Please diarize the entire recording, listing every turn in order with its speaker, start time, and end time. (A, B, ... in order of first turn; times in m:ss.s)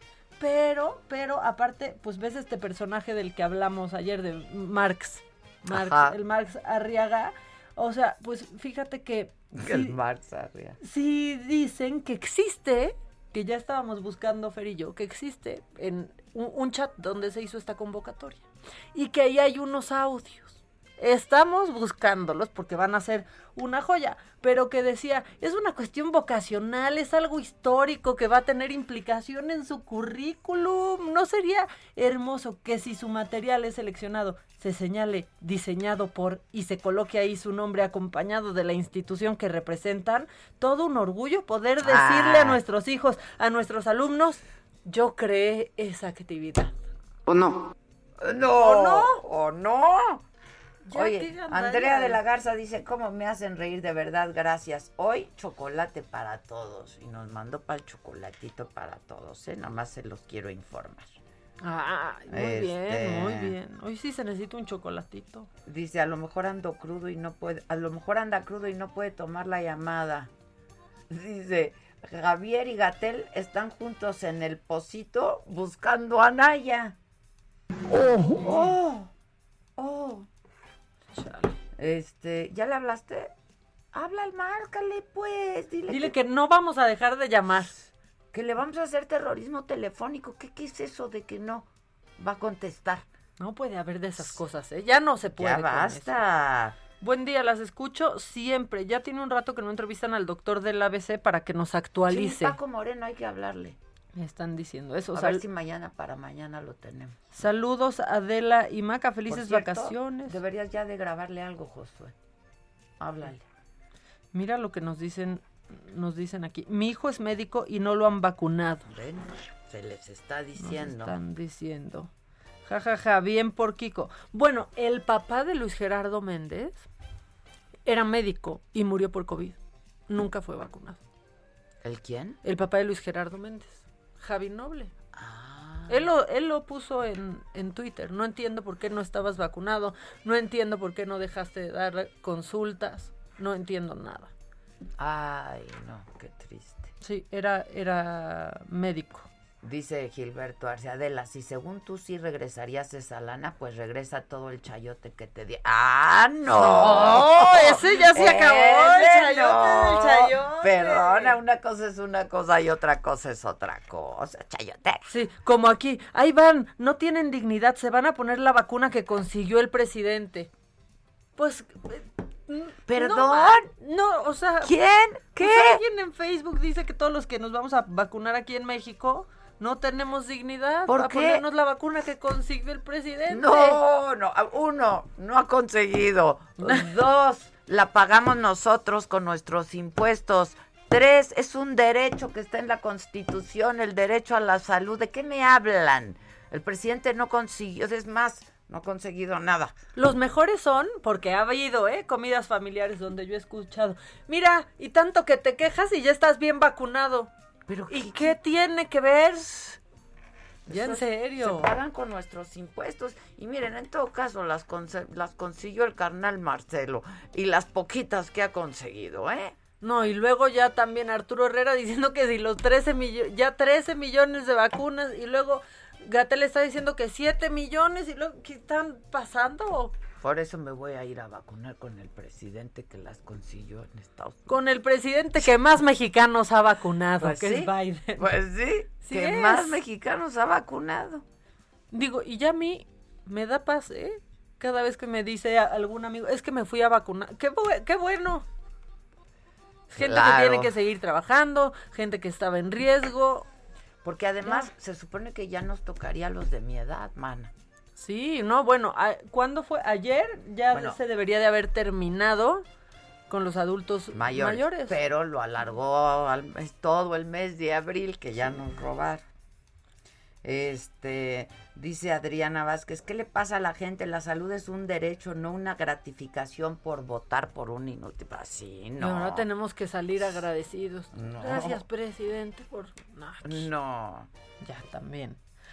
0:00.4-0:10.0 A
0:05.7-0:06.2 B
0:09.5-0:10.8 B
0:10.8-0:46.7 A
0:41.8-0:42.6 B
0:47.2-0:50.2 B
0:48.6-0:49.2 A
0:50.8-0:52.2 A
0:50.9-1:01.2 B
1:01.6-1:05.5 A
1:02.3-1:03.6 B
1:05.6-1:10.3 B
1:11.1-1:17.0 B
1:17.9-1:19.1 B
1:19.8-1:20.3 B
1:21.1-1:21.6 A
1:21.8-1:23.3 B
1:23.9-1:26.2 B
1:25.9-1:27.8 A
1:27.8-1:33.1 B
1:33.4-1:36.1 A
1:35.3-1:36.8 B
1:37.0-1:42.6 A
1:42.1-1:43.8 B
1:44.1-1:45.4 A
1:45.1-1:47.2 B
1:47.3-1:50.4 A
1:49.3-1:52.2 B
1:53.0-1:53.4 B
1:54.3-1:58.9 A
1:58.9-2:01.2 B
2:00.6-2:02.1 A
2:02.6-2:06.8 A
2:07.8-2:09.6 A
2:10.1-2:11.0 A
2:11.8-2:12.4 B
2:12.4-2:14.9 A
2:15.1-2:16.1 B
2:15.9-2:24.3 A
2:25.0-2:26.9 B
2:27.0-2:29.3 A
2:29.6-2:45.1 B
2:36.5-2:41.4 A
2:45.1-2:50.5 A
2:51.4-2:54.7 A
2:52.9-2:53.7 B
2:54.6-2:55.8 B
2:55.4-3:03.8 A
3:00.9-3:01.4 B
3:03.3-3:19.7 B
3:06.6-3:06.9 A
3:20.0-3:27.3 A
3:27.7-3:28.4 B
3:27.9-3:29.8 A
3:30.6-3:39.6 B
3:30.7-3:31.7 A
3:39.8-3:49.9 A
3:50.2-3:54.5 B
3:54.5-3:58.3 A
3:57.2-4:01.2 B
3:59.0-3:59.8 A
4:01.9-4:08.4 A
4:09.9-4:13.5 A
4:10.0-4:10.7 B
4:14.0-4:17.5 B
4:14.4-4:14.7 A
4:18.0-4:22.6 A
4:20.7-4:21.0 B
4:23.3-4:25.0 A
4:24.1-4:29.2 B
4:30.4-4:39.4 B
4:39.0-4:43.7 A
4:41.1-4:41.8 B
4:43.4-4:44.3 B
4:44.6-4:45.4 A